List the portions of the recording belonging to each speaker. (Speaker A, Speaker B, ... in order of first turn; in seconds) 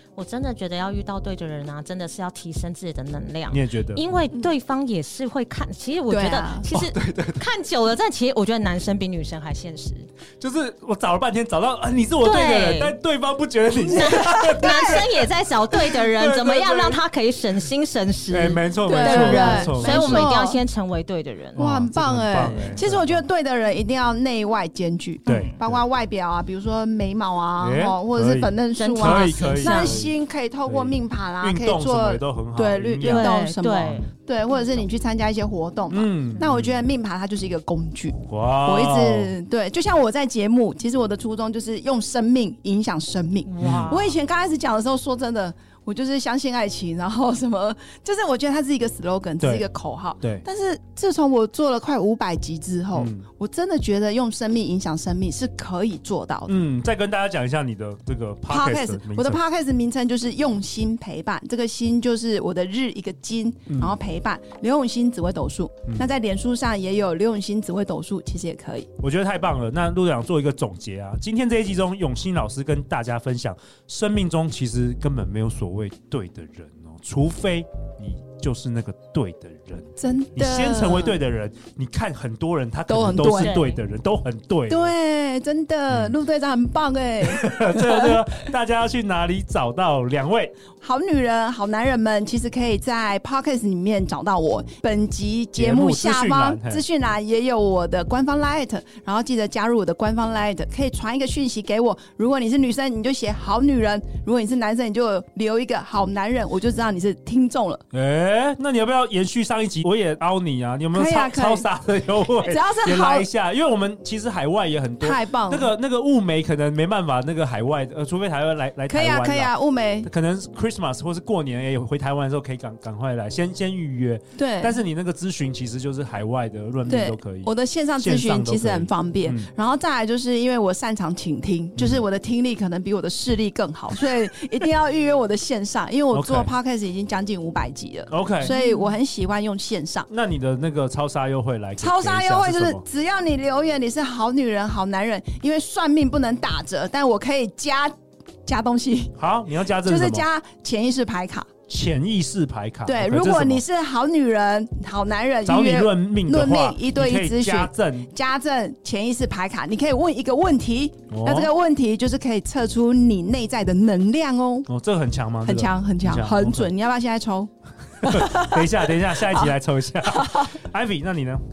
Speaker A: 0.2-10.1, 12.2-13.0, 13.9-21.6, 25.3-25.6, 28.8-30.0, 33.0-34.0, 43.5-44.2, 83.3-83.8, 138.4-139.0
Speaker B: 3.5-4.0, 6.7-7.5, 10.4-15.3, 15.8-17.0, 18.3-20.3, 21.6-23.2, 25.3-25.8, 27.6-30.1, 30.7-34.1, 35.9-36.8, 38.3-39.4, 43.6-43.9, 49.4-49.7, 52.9-53.3, 56.5-59.4, 63.7-64.0, 69.0-84.9, 87.2-90.5, 95.5-96.8, 107.9-129.5, 131.8-132.0, 136.1-136.5, 138.1-138.5, 140.1-142.8, 149.2-150.3, 151.7-153.6, 155.4-158.1, 161.1-161.5, 164.7-166.7, 168.0-171.4
Speaker C: 6.1-6.7, 13.9-15.1, 18.9-20.6, 21.6-56.6, 58.5-68.9, 80.0-81.2, 82.9-83.6, 84.7-88.2, 90.8-107.8, 110.9-111.7, 112.4-113.3, 115.0-115.7, 118.9-120.1, 124.4-124.8, 126.9-140.1, 141.8-147.9, 148.4-151.5, 152.8-164.7, 165.4-169.5, 170.1-170.5